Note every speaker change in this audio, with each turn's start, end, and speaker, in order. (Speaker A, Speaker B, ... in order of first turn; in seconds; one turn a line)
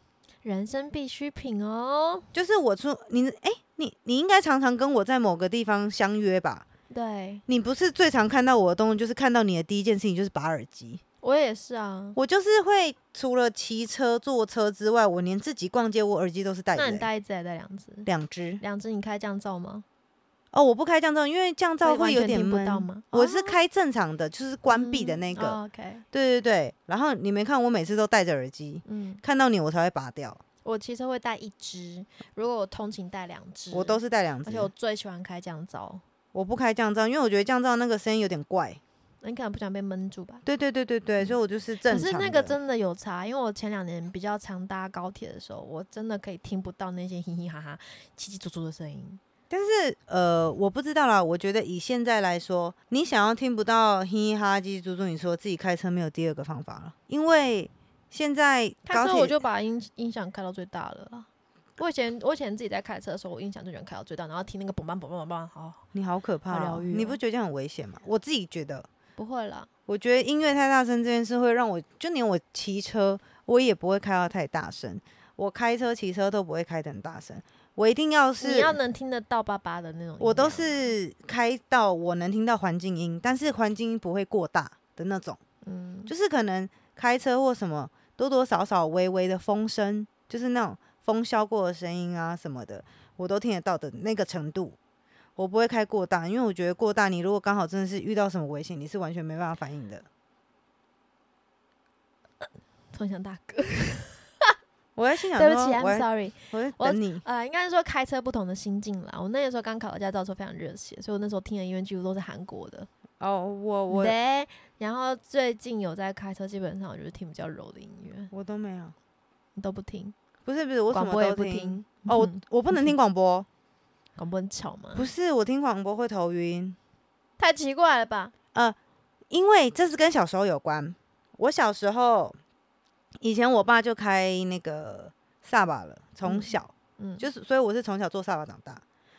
Speaker A: 0.4-2.2
Speaker B: 2.3-6.7
Speaker A: 6.9-7.4
Speaker B: 7.5-11.0
Speaker A: 11.2-12.2
Speaker B: 12.2-17.1
Speaker A: 16.7-18.1
Speaker B: 18.0-18.6
Speaker A: 18.6-19.8
Speaker B: 20.5-25.6
Speaker A: 21.8-23.6
Speaker A: 24.7-26.0
Speaker B: 26.1-30.4
Speaker A: 28.8-29.2
Speaker A: 30.6-36.0
Speaker B: 33.7-34.7
Speaker B: 36.3-38.8
Speaker A: 39.2-40.4
Speaker B: 40.4-42.5
Speaker A: 41.9-49.2
Speaker B: 49.5-59.3
Speaker A: 58.9-65.8
Speaker B: 65.9-68.9
Speaker A: 66.5-67.2
Speaker A: 69.2-69.7
Speaker B: 69.9-78.8
Speaker A: 78.4-80.9
Speaker B: 80.2-85.4
Speaker A: 85.6-86.1
Speaker B: 86.1-94.8
Speaker B: 95.4-100.0
Speaker A: 102.9-104.5
Speaker B: 105.0-107.2
Speaker A: 105.3-112.9
Speaker B: 113.2-114.1
Speaker A: 113.9-118.3
Speaker B: 118.3-118.9
Speaker A: 119.5-120.1
Speaker B: 120.5-123.5
Speaker A: 120.9-122.9
Speaker A: 124.2-125.1
Speaker B: 124.9-126.8
Speaker A: 127.4-128.3
Speaker B: 129.3-132.3
Speaker B: 133.2-138.8
Speaker A: 136.2-137.3